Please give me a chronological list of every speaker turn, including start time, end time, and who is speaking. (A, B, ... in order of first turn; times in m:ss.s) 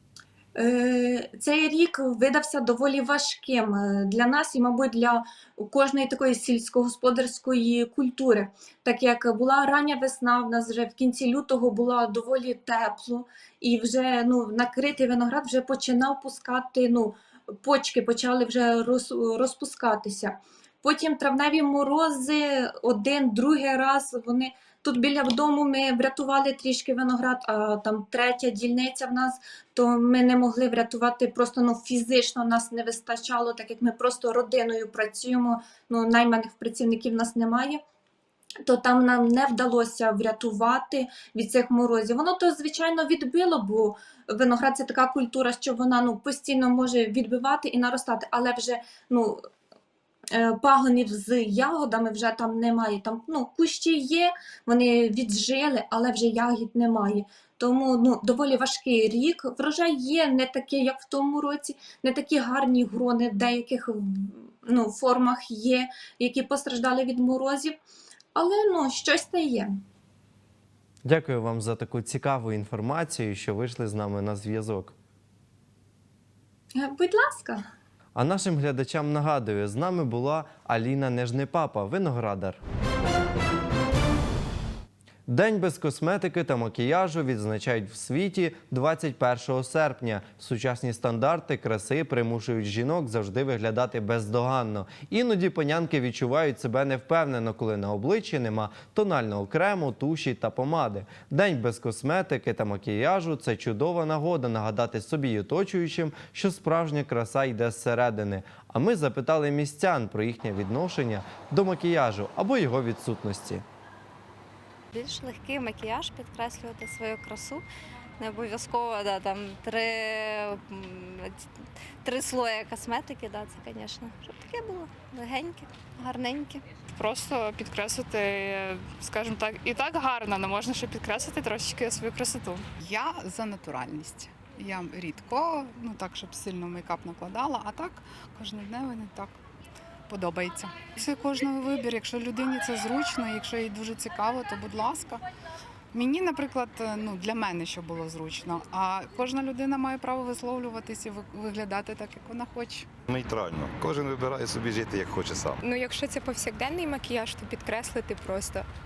0:00.6-0:37.8 A
0:38.7-0:49.4 A
0:50.4-1:07.8 A
1:08.4-1:09.7 A
1:11.0-1:15.0 B
1:16.8-1:17.6 A
1:18.2-1:22.6 B
1:25.3-1:53.6 B
1:54.9-1:57.6 C
1:58.2-2:01.4 C
2:02.0-2:06.6 C
2:07.0-2:12.6 D
2:12.8-2:19.4 E
2:20.1-2:25.2 E
2:25.9-2:32.9 E
2:33.1-2:35.6 F
2:35.7-2:38.7 G